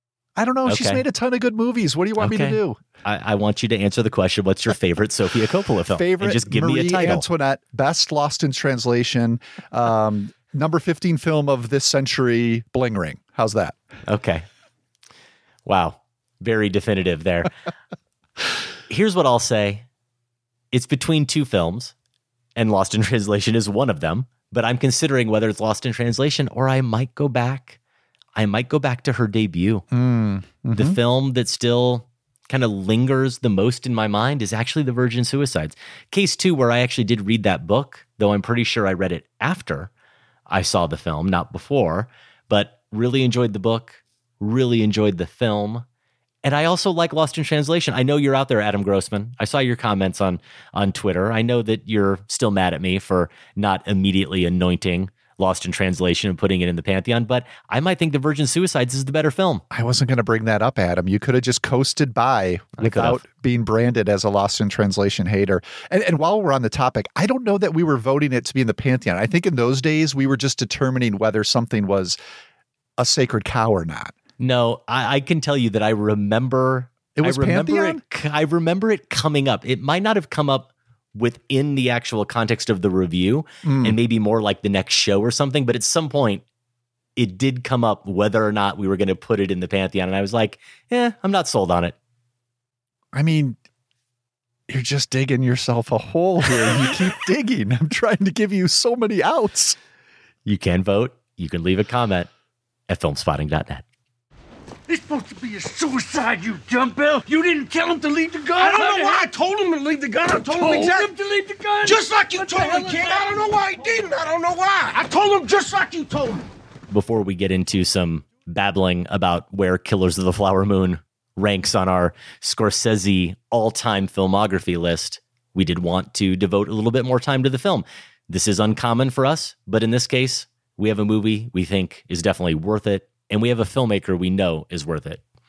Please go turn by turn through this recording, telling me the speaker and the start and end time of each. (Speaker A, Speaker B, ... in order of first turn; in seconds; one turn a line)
Speaker A: 0.4-2.8
Speaker B: 0.7-1.0
Speaker B: 2.2-7.2
Speaker A: 5.9-13.8
Speaker B: 14.1-14.5
Speaker B: 15.7-17.5
Speaker B: 18.9-19.9
Speaker B: 20.7-21.9
Speaker B: 22.6-27.8
Speaker B: 28.4-29.9
Speaker A: 29.9-31.0
Speaker B: 30.7-39.9
Speaker B: 40.5-45.9
Speaker B: 46.4-59.6
Speaker A: 59.7-72.2
Speaker B: 62.8-63.2
Speaker A: 73.0-74.1
Speaker B: 74.4-86.4
Speaker A: 77.2-78.0
Speaker A: 83.6-84.0
Speaker B: 87.2-92.0
Speaker A: 93.1-93.6
Speaker A: 94.7-99.8
Speaker B: 100.5-102.3
Speaker B: 102.9-103.8
Speaker C: 104.9-106.7
Speaker C: 107.5-111.2
Speaker C: 111.7-116.4
Speaker B: 116.9-135.2